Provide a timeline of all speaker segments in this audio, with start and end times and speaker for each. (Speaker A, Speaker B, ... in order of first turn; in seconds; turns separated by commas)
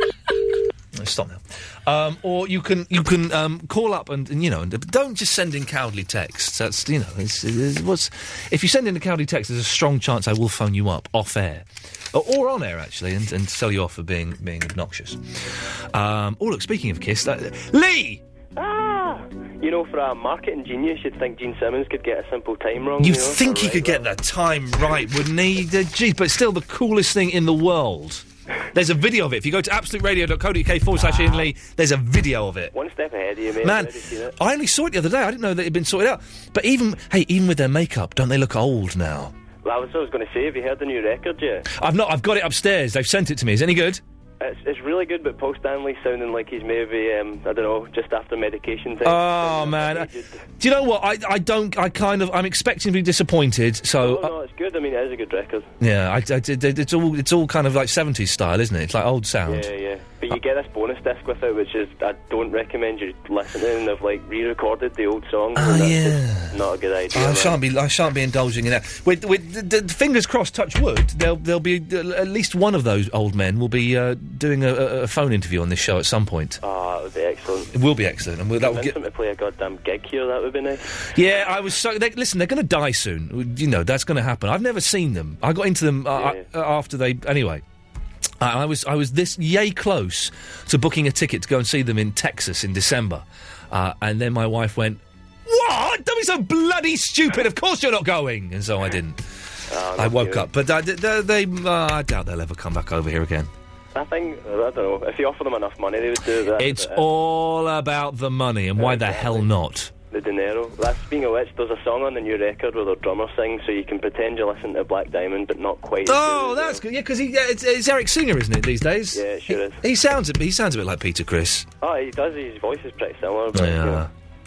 Speaker A: 0.9-15.2, Speaker A: 15.9-18.2, Speaker B: 18.6-24.1, Speaker A: 23.0-32.7, Speaker B: 31.0-31.4, Speaker B: 32.7-34.3, Speaker A: 33.6-39.3, Speaker B: 39.6-41.6, Speaker A: 41.7-44.0, Speaker B: 44.4-50.4, Speaker A: 49.0-54.3, Speaker B: 54.0-55.7, Speaker A: 55.8-59.7, Speaker B: 59.5-67.6, Speaker A: 65.5-66.6, Speaker A: 67.1-76.6, Speaker B: 76.6-77.7, Speaker A: 77.7-78.9, Speaker B: 78.6-80.8, Speaker A: 81.1-87.6, Speaker B: 86.1-86.4, Speaker A: 88.4-99.2, Speaker B: 99.7-100.5, Speaker A: 100.0-103.5, Speaker B: 103.9-107.0, Speaker A: 106.6-109.9, Speaker B: 108.8-109.5, Speaker B: 110.1-116.8, Speaker A: 116.0-121.7, Speaker B: 119.1-119.8, Speaker B: 121.8-124.0, Speaker A: 123.5-124.1